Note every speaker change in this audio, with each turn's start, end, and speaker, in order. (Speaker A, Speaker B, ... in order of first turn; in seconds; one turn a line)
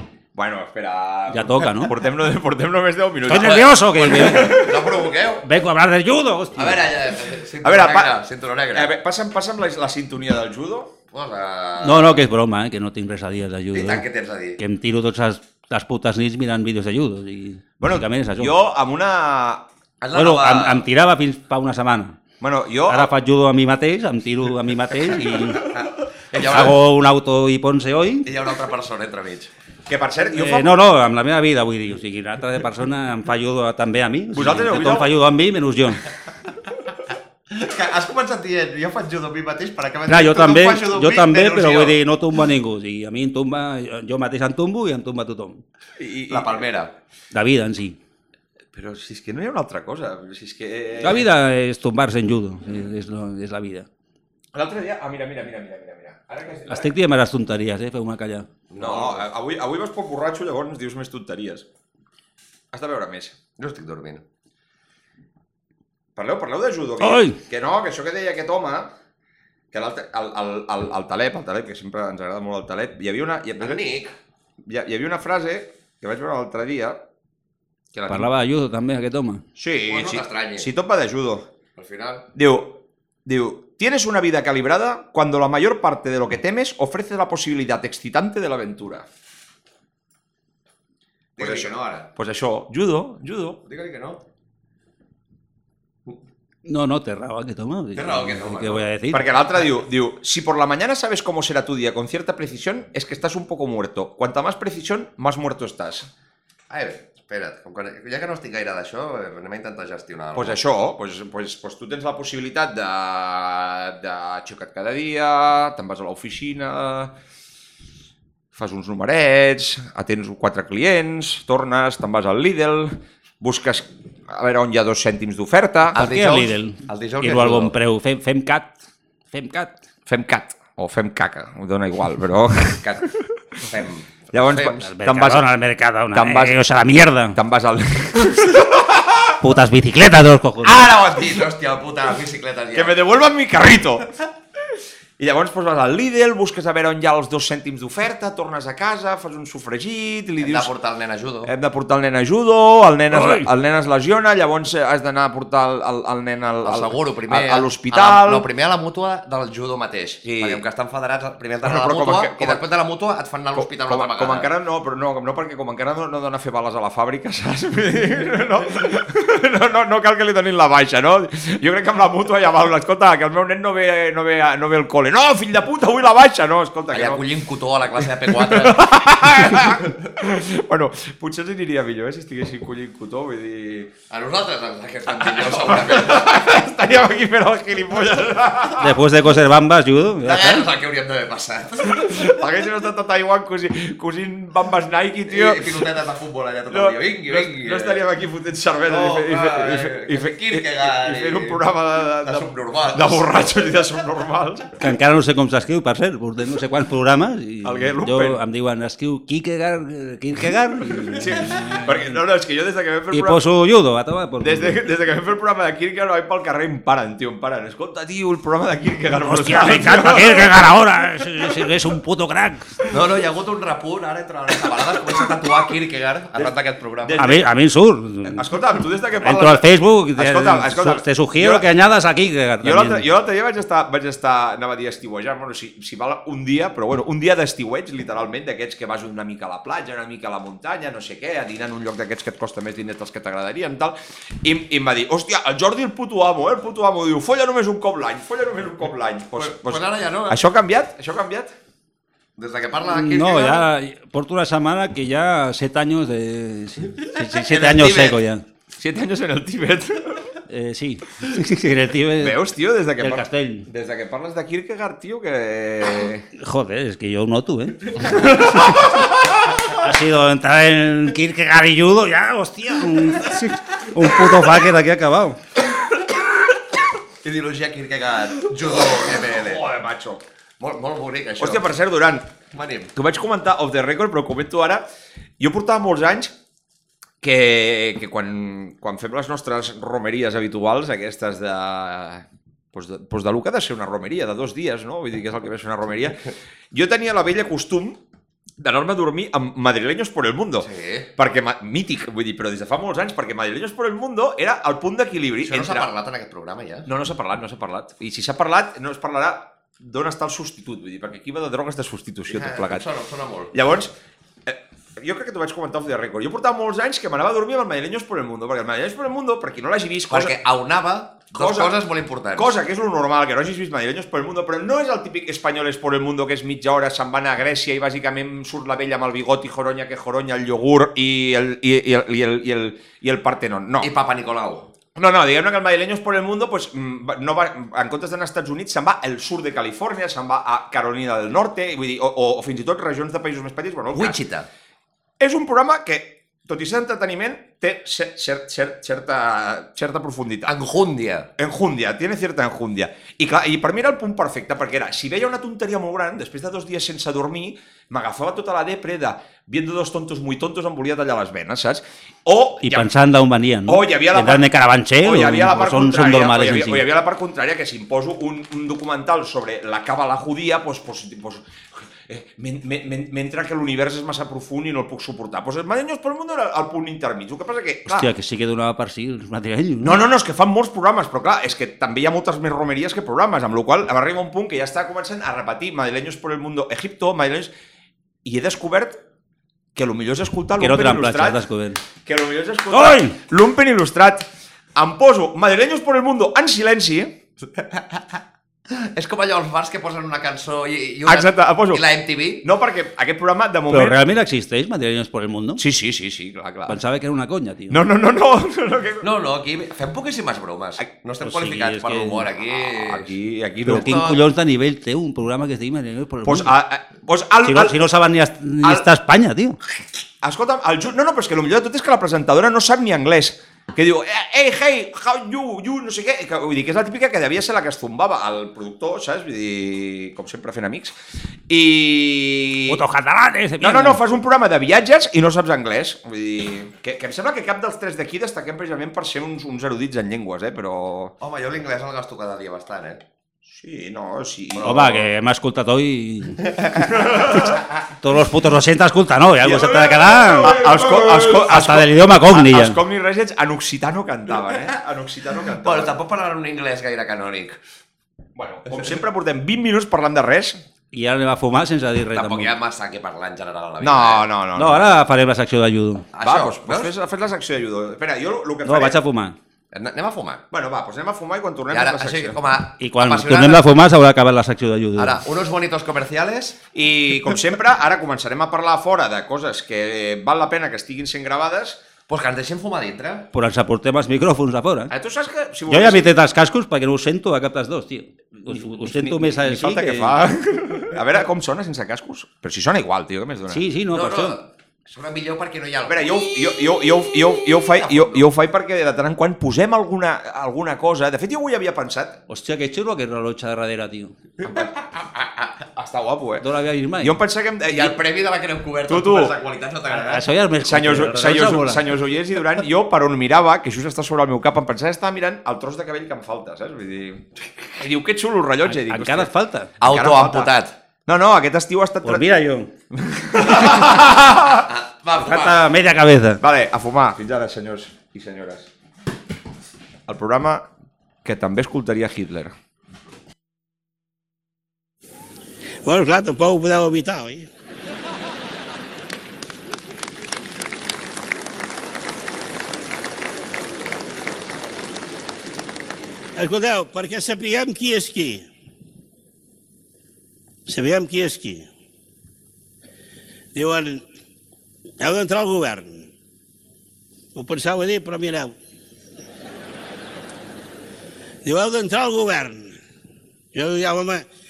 Speaker A: 0.3-5.0
Speaker B: 1.3-1.9
Speaker B: 3.3-4.7
Speaker C: 3.3-5.5
Speaker B: 5.4-6.9
Speaker C: 6.5-8.9
Speaker A: 7.6-8.1
Speaker A: 8.7-10.9
Speaker C: 11.1-12.2
Speaker B: 11.8-14.1
Speaker C: 13.7-14.6
Speaker B: 14.6-18.5
Speaker A: 17.8-19.7
Speaker C: 20.0-20.8
Speaker B: 20.1-22.2
Speaker A: 22.4-23.1
Speaker B: 22.9-25.7
Speaker C: 25.6-26.8
Speaker B: 26.4-28.3
Speaker C: 28.2-29.5
Speaker A: 29.9-30.8
Speaker B: 30.3-36.1
Speaker A: 34.3-35.1
Speaker C: 37.5-42.0
Speaker B: 40.1-45.6
Speaker A: 46.0-46.6
Speaker C: 46.3-46.9
Speaker B: 47.3-48.0
Speaker A: 48.7-51.3
Speaker B: 51.0-53.9
Speaker A: 54.5-56.9
Speaker B: 56.7-58.5
Speaker C: 58.7-59.2
Speaker A: 58.8-61.7
Speaker A: 62.7-63.4
Speaker C: 63.6-64.2
Speaker A: 66.2-68.9
Speaker B: 67.0-67.4
Speaker A: 69.7-73.9
Speaker C: 73.6-74.2
Speaker A: 74.7-77.0
Speaker C: 77.9-78.3
Speaker B: 78.1-79.5
Speaker A: 79.6-81.5
Speaker C: 79.9-80.7
Speaker C: 81.8-82.2
Speaker A: 82.3-89.1
Speaker C: 91.4-92.1
Speaker A: 91.4-93.6
Speaker C: 93.7-94.2
Speaker B: 96.7-99.2
Speaker C: 98.0-98.8
Speaker A: 99.1-106.1
Speaker C: 106.7-110.6
Speaker A: 110.3-117.1
Speaker A: 118.5-126.0
Speaker C: 126.0-127.8
Speaker B: 126.0-128.8
Speaker B: 129.3-129.8
Speaker A: 130.1-133.6
Speaker C: 133.6-134.8
Speaker A: 134.3-135.5
Speaker B: 134.8-137.4
Speaker A: 136.1-136.6
Speaker A: 137.3-139.4
Speaker B: 139.4-140.9
Speaker C: 140.6-142.9
Speaker A: 142.7-144.1
Speaker A: 145.2-150.7
Speaker C: 150.4-151.5
Speaker A: 151.5-158.5
Speaker B: 153.1-153.5
Speaker C: 156.6-164.5
Speaker A: 160.2-160.6
Speaker A: 161.6-162.6
Speaker A: 163.6-177.2
Speaker C: 176.9-179.0
Speaker A: 178.3-183.9
Speaker C: 184.1-186.5
Speaker A: 185.1-189.0
Speaker B: 188.8-190.7
Speaker C: 190.2-192.2
Speaker A: 191.9-195.9
Speaker C: 195.3-198.0
Speaker A: 196.7-204.8
Speaker C: 198.9-201.6
Speaker C: 202.2-203.3
Speaker B: 204.8-212.2
Speaker A: 207.6-208.4
Speaker A: 211.2-213.4
Speaker B: 213.1-214.8
Speaker A: 214.4-220.7
Speaker B: 219.2-222.7
Speaker C: 222.9-227.3
Speaker A: 227.1-227.4
Speaker B: 227.2-228.5
Speaker A: 228.3-231.7
Speaker B: 229.2-233.1
Speaker A: 232.6-251.5
Speaker C: 249.4-250.4
Speaker C: 252.4-253.6
Speaker B: 252.9-258.4
Speaker C: 257.3-258.2
Speaker A: 258.8-260.3
Speaker B: 260.5-262.4
Speaker A: 262.2-266.3
Speaker B: 263.0-263.7
Speaker B: 266.4-269.0
Speaker B: 269.6-275.4
Speaker C: 277.2-279.6
Speaker A: 278.9-280.2
Speaker C: 280.6-281.7
Speaker A: 281.4-282.3
Speaker C: 282.5-282.9
Speaker A: 282.9-284.9
Speaker A: 285.4-286.3
Speaker A: 287.2-298.0
Speaker A: 298.6-305.9
Speaker C: 300.6-301.1
Speaker C: 305.4-306.9
Speaker A: 306.9-312.9
Speaker C: 312.3-313.5
Speaker A: 313.5-313.9
Speaker A: 314.5-320.4
Speaker C: 320.1-322.5
Speaker A: 321.3-321.8
Speaker A: 322.4-333.9
Speaker C: 333.8-334.7
Speaker A: 335.0-344.2
Speaker C: 343.9-344.5
Speaker A: 345.2-350.5
Speaker C: 350.5-351.3
Speaker A: 351.4-362.9
Speaker B: 362.6-366.8
Speaker A: 363.7-364.5
Speaker A: 365.0-371.4
Speaker A: 372.1-378.1
Speaker B: 377.9-380.1
Speaker A: 379.8-387.5
Speaker A: 388.2-389.0
Speaker A: 389.8-391.4
Speaker B: 390.6-391.8
Speaker A: 392.1-397.2
Speaker B: 392.7-393.1
Speaker C: 397.6-398.2
Speaker C: 398.7-402.4
Speaker A: 401.1-401.8
Speaker A: 402.4-404.0
Speaker B: 403.7-405.6
Speaker A: 405.6-406.8
Speaker B: 406.7-407.8
Speaker A: 407.7-409.1
Speaker C: 409.0-413.1
Speaker B: 411.2-412.3
Speaker A: 412.8-414.1
Speaker B: 413.6-416.5
Speaker C: 413.7-414.2
Speaker A: 416.2-417.8
Speaker B: 417.4-419.6
Speaker A: 420.2-430.9
Speaker A: 431.5-432.8
Speaker B: 432.7-434.0
Speaker A: 433.6-441.1
Speaker C: 441.2-443.0
Speaker A: 443.5-445.1
Speaker B: 444.6-446.6
Speaker A: 446.9-447.6
Speaker B: 448.0-452.8
Speaker A: 449.4-455.9
Speaker C: 455.6-457.6
Speaker A: 458.4-460.6
Speaker B: 460.9-462.5
Speaker C: 462.1-464.2
Speaker A: 463.8-464.9
Speaker B: 464.6-466.1
Speaker C: 466.1-466.9
Speaker A: 466.2-469.0
Speaker B: 468.6-469.4
Speaker C: 469.7-470.4
Speaker A: 470.5-472.4
Speaker C: 471.7-473.6
Speaker B: 472.8-475.2
Speaker C: 475.0-476.6
Speaker A: 476.7-481.8
Speaker C: 482.1-483.3
Speaker B: 483.3-484.9
Speaker A: 484.9-486.1
Speaker B: 485.7-490.2
Speaker A: 488.5-493.6
Speaker B: 493.5-494.4
Speaker C: 493.9-496.4
Speaker A: 495.9-502.2
Speaker C: 497.6-498.2
Speaker B: 502.3-504.1
Speaker C: 504.4-505.5
Speaker A: 504.4-504.8
Speaker A: 505.8-506.4
Speaker B: 506.4-507.2
Speaker A: 507.0-508.0
Speaker C: 507.7-510.3
Speaker A: 508.9-509.4
Speaker B: 509.9-511.8
Speaker A: 510.6-520.5
Speaker B: 518.6-519.7
Speaker C: 519.8-520.7
Speaker A: 521.1-522.4
Speaker B: 522.0-522.7
Speaker A: 522.9-524.6
Speaker C: 524.7-525.6
Speaker B: 525.2-526.4
Speaker A: 526.4-528.7
Speaker A: 530.1-530.6
Speaker A: 531.2-532.5
Speaker D: 535.8-537.5
Speaker D: 546.4-548.5
Speaker D: 550.7-551.7
Speaker D: 553.5-554.1
Speaker D: 555.0-556.1
Speaker D: 557.4-558.5
Speaker D: 561.4-562.8
Speaker D: 563.5-564.3